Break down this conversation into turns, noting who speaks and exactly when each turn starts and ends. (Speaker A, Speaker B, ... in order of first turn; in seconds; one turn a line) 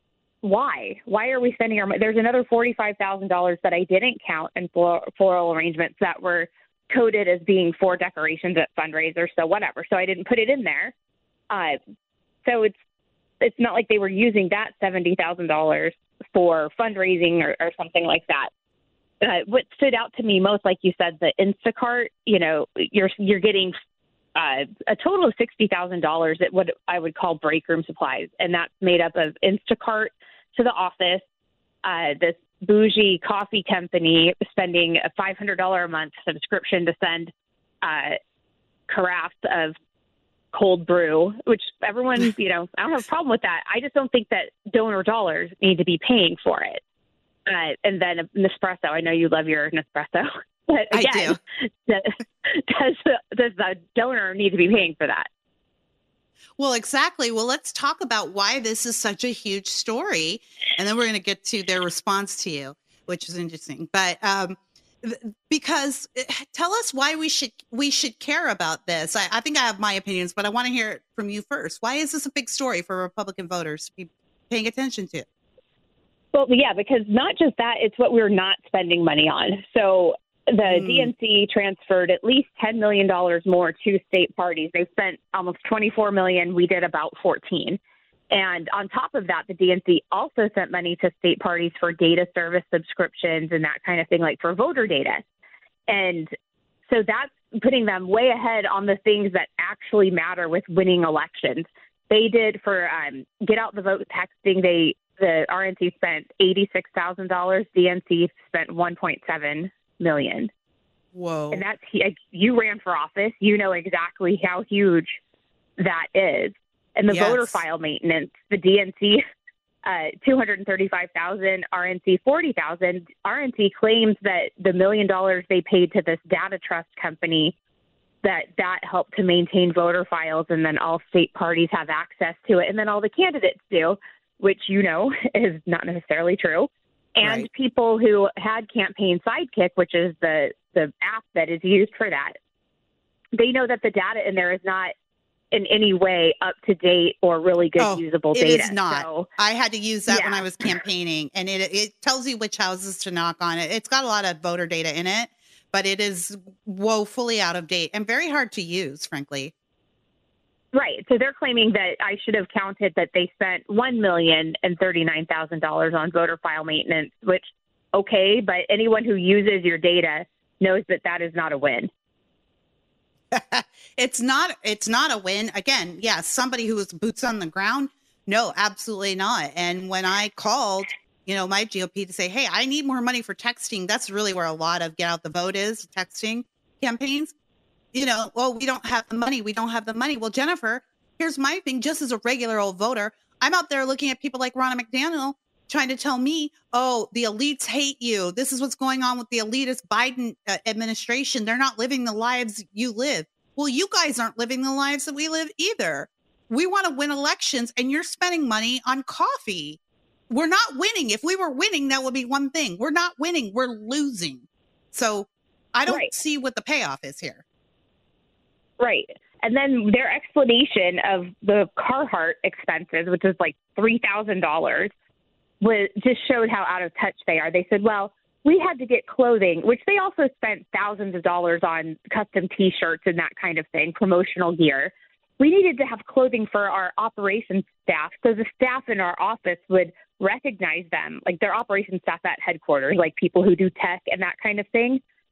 Speaker A: 0.4-10.9
Speaker A: 11.5-11.8
Speaker A: 12.4-12.8
Speaker A: 13.4-18.5
Speaker A: 19.2-23.8
Speaker A: 24.4-31.2
Speaker A: 31.8-38.2
Speaker A: 38.9-39.8
Speaker A: 40.5-46.8
Speaker A: 47.5-55.3
Speaker B: 50.9-51.4
Speaker B: 56.6-75.3
Speaker A: 76.3-87.8
Speaker B: 80.7-81.1
Speaker A: 88.3-95.2
Speaker A: 95.9-96.3
Speaker A: 96.9-110.5
Speaker B: 111.1-111.6
Speaker A: 111.5-115.2
Speaker A: 115.8-119.2
Speaker B: 117.1-117.6
Speaker A: 119.8-127.5
Speaker A: 128.2-142.3
Speaker B: 137.2-137.5
Speaker A: 143.3-144.9
Speaker A: 145.5-149.3
Speaker B: 147.8-159.5
Speaker A: 150.1-150.7
Speaker A: 160.7-167.4
Speaker A: 167.9-171.9
Speaker B: 173.3-187.3
Speaker B: 187.9-209.8
Speaker B: 210.3-217.4
Speaker A: 215.9-216.1
Speaker A: 218.8-224.9
Speaker A: 225.6-245.0